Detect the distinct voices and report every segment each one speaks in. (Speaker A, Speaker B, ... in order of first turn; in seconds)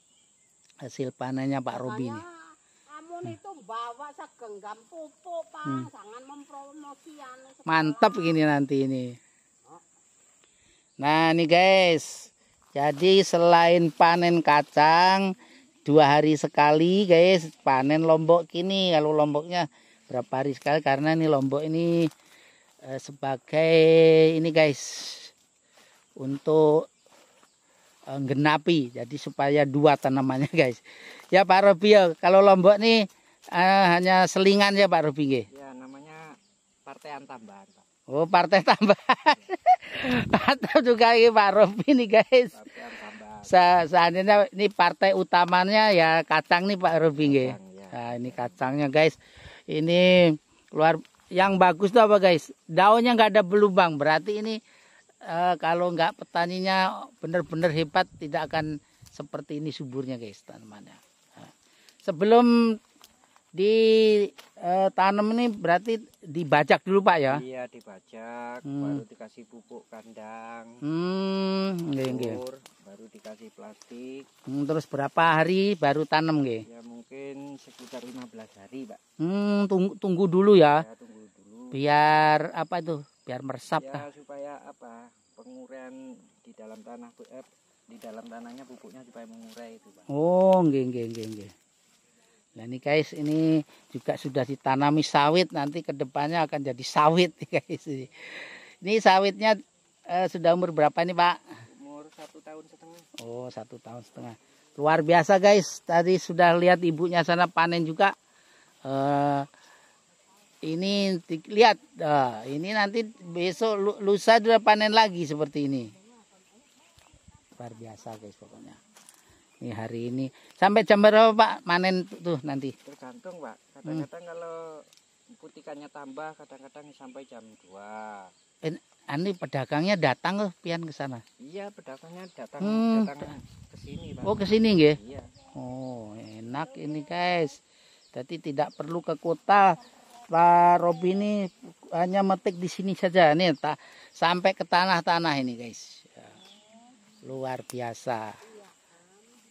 Speaker A: 0.8-2.2, 7.7-9.2, 11.0-15.3, 15.8-22.1, 22.9-25.3, 26.2-26.8, 28.1-35.5, 38.1-42.5, 43.5-54.6, 55.2-61.5, 62.0-62.8, 63.6-67.4, 68.7-69.0, 70.8-72.4, 74.5-76.6, 79.2-80.8, 81.7-84.0, 90.1-91.5, 92.5-99.6, 100.1-101.4, 103.2-108.1, 108.8-109.5, 110.6-115.9, 117.6-118.8, 119.6-122.7, 128.6-131.2, 132.6-133.1, 134.2-135.0, 135.6-137.6, 138.1-139.8, 140.3-146.3, 147.2-148.2
Speaker B: 1.7-8.4, 148.4-149.3
Speaker C: 35.5-36.2, 36.9-37.8, 42.5-43.6, 47.1-48.6, 67.3-70.8, 72.0-74.3, 76.7-79.0, 80.5-81.8, 83.8-90.1, 101.7-103.1, 122.8-124.6, 125.3-128.2, 131.4-135.3